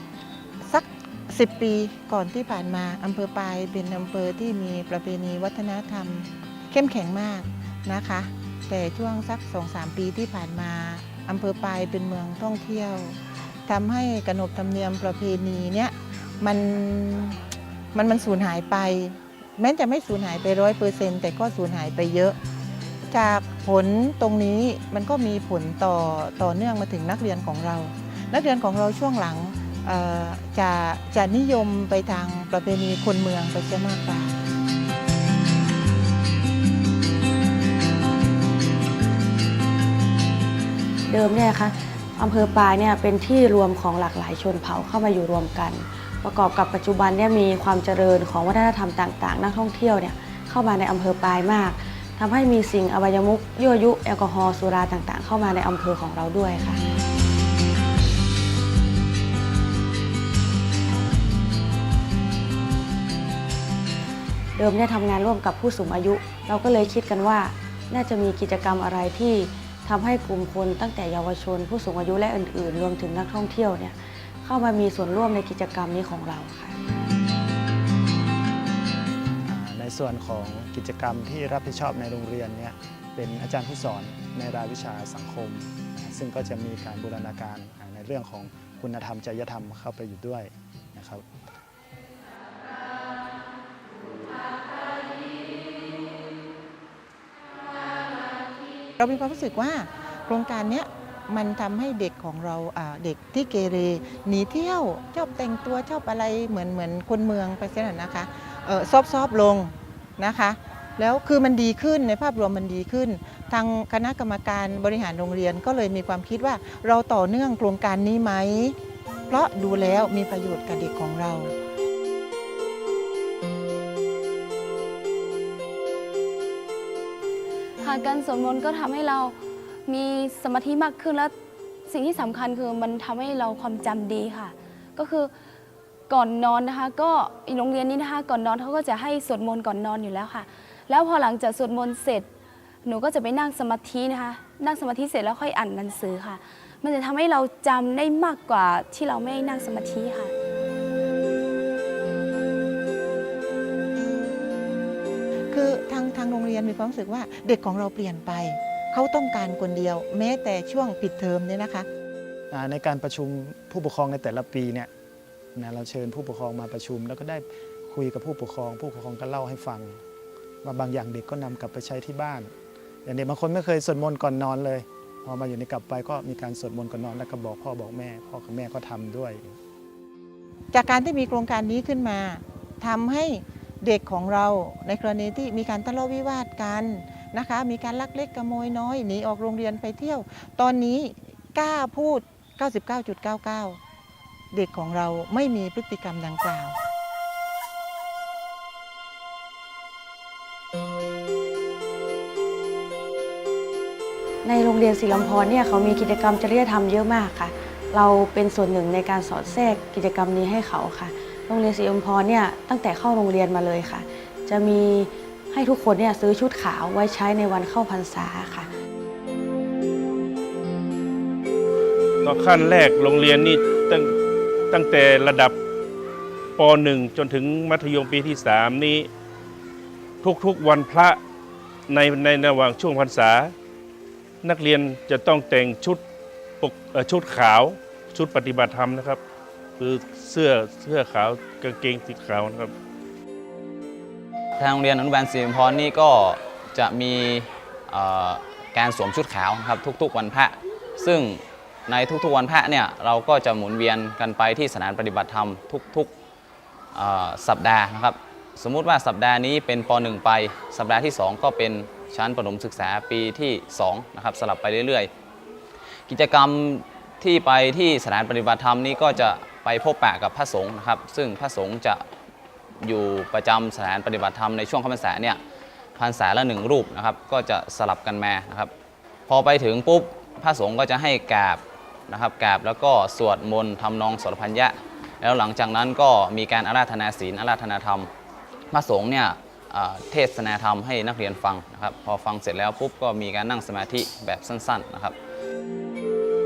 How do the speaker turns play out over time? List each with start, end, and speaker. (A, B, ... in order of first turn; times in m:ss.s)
0:00.7-0:17.4 A
0:17.9-0:22.4 A
0:23.1-0:34.3 A
0:41.1-0:56.8 B
1:04.6-1:16.8 B
1:19.5-1:31.2 C
1:39.0-1:58.8 A
1:59.3-2:01.5 A
2:07.8-2:09.4 D
2:09.9-2:11.3 D
2:11.9-2:15.3 D
2:16.1-2:22.3 D
2:22.8-2:30.3 D
2:35.5-2:41.9 A
2:42.5-2:44.9 C
2:45.6-2:50.0 C
2:50.6-2:52.5 C
2:53.0-2:59.5 C
3:00.7-3:13.8 A
3:14.5-3:16.8 A
3:24.4-3:38.7 B
3:42.2-3:44.1 E
3:44.7-3:45.6 E
3:46.6-3:49.1 E
3:50.2-3:51.2 E
3:51.9-3:53.5 E
3:54.4-3:56.0 E
3:56.6-3:59.2 E
3:59.8-4:02.7 E
4:04.6-4:16.1 F
4:16.9-4:25.1 F
4:26.1-4:32.0 F
4:32.8-4:35.4 F
4:36.0-4:38.7 F
4:39.3-4:48.1 F
4:48.7-4:55.2 F